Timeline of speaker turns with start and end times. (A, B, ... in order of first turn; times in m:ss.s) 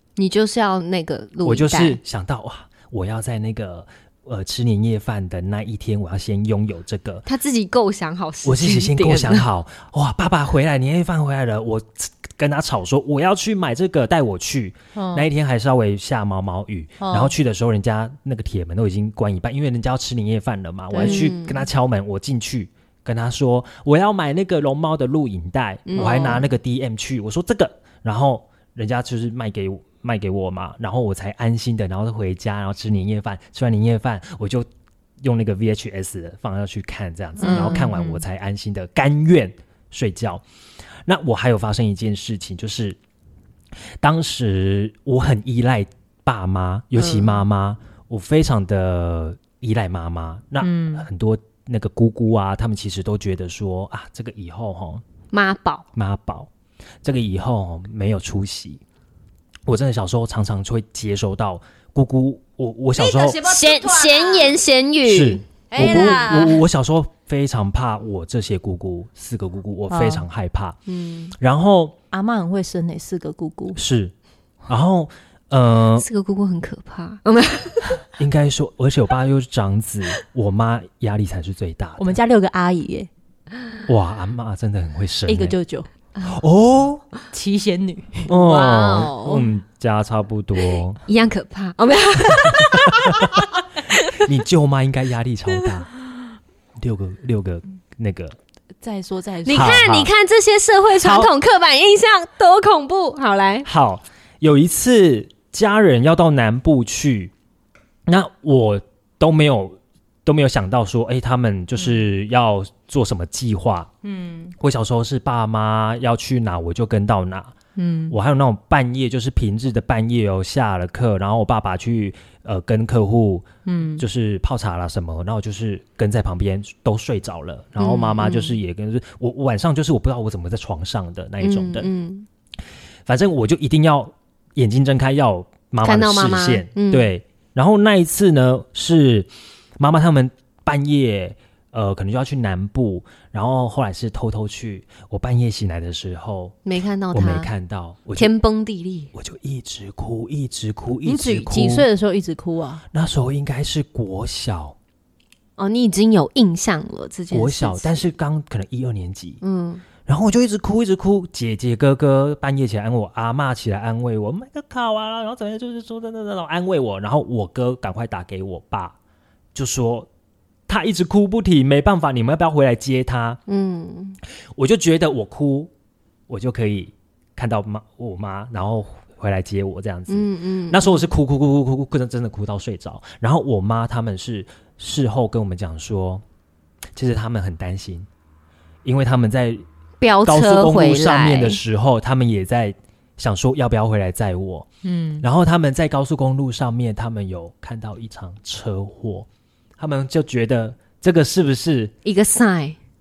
0:00.2-0:02.0 A
0:01.4-0:07.2 B
0:07.2-0:09.4 A
0:08.4-0:34.7 B
0:14.9-0:15.3 C
0:17.0-0:17.3 C
0:20.9-0:21.3 C
0:20.9-0:21.6 A
0:25.9-0:26.4 A
0:26.0-0:26.4 C
0:35.2-0:40.4 B
0:37.4-0:38.2 A
0:37.4-0:37.8 C
0:41.0-0:43.0 B
0:44.0-0:55.0 B
0:47.0-0:47.3 A
0:50.6-0:51.0 C
0:55.3-0:55.8 A
0:55.9-0:56.5 B
0:57.0-0:58.8 B
0:59.6-1:03.4 B
1:03.0-1:04.6 C
1:03.4-1:05.4 A
1:05.0-1:10.8 B
1:05.7-1:06.6 C
1:09.9-1:10.2 C
1:10.9-1:11.3 A
1:11.4-1:12.0 B
1:12.1-1:13.8 C
1:13.7-1:14.1 B
1:14.7-1:16.0 B
1:16.0-1:18.0 A
1:18.2-1:22.2 B
1:22.0-1:23.1 C
1:23.9-1:25.6 B
1:25.3-1:25.9 C
1:26.2-1:27.0 B
1:27.3-1:28.3 C
1:28.3-1:31.0 B
1:28.3-1:29.4 A
1:31.0-1:34.2 A
1:32.4-1:33.4 B
1:34.1-1:35.9 B
1:36.8-1:38.4 B
1:38.8-1:39.8 C
1:39.4-1:43.7 A
1:39.5-1:40.1 B
1:41.0-1:41.3 B
1:43.6-1:47.3 B
1:48.1-1:53.9 B
1:54.0-1:54.5 C
1:54.6-1:57.5 B
1:57.8-1:58.1 C
1:58.1-2:03.5 B
2:03.6-2:04.0 C
2:04.0-2:11.9 B
2:07.8-2:08.6 A
2:11.4-2:12.3 A
2:13.0-2:26.6 B
2:15.8-2:17.1 A
2:26.6-2:27.5 A
2:27.1-2:28.3 B
2:28.2-2:29.1 A
2:29.1-2:31.9 B
2:31.0-2:32.8 C
2:32.9-2:34.8 B
2:35.6-2:38.0 A
2:37.3-2:39.4 B
2:39.4-2:39.8 A
2:40.0-2:48.9 B
2:49.5-2:50.1 B
2:50.7-2:53.4 B
2:53.5-2:54.2 A
2:54.6-2:55.7 B
2:56.3-3:06.2 B
3:00.1-3:01.0 A
3:06.9-3:08.1 B
3:08.8-3:09.6 B
3:10.0-3:11.6 A
3:10.2-3:14.7 B
3:14.8-3:15.2 C
3:15.2-3:19.3 B
3:19.8-3:21.9 B
3:22.0-3:22.8 A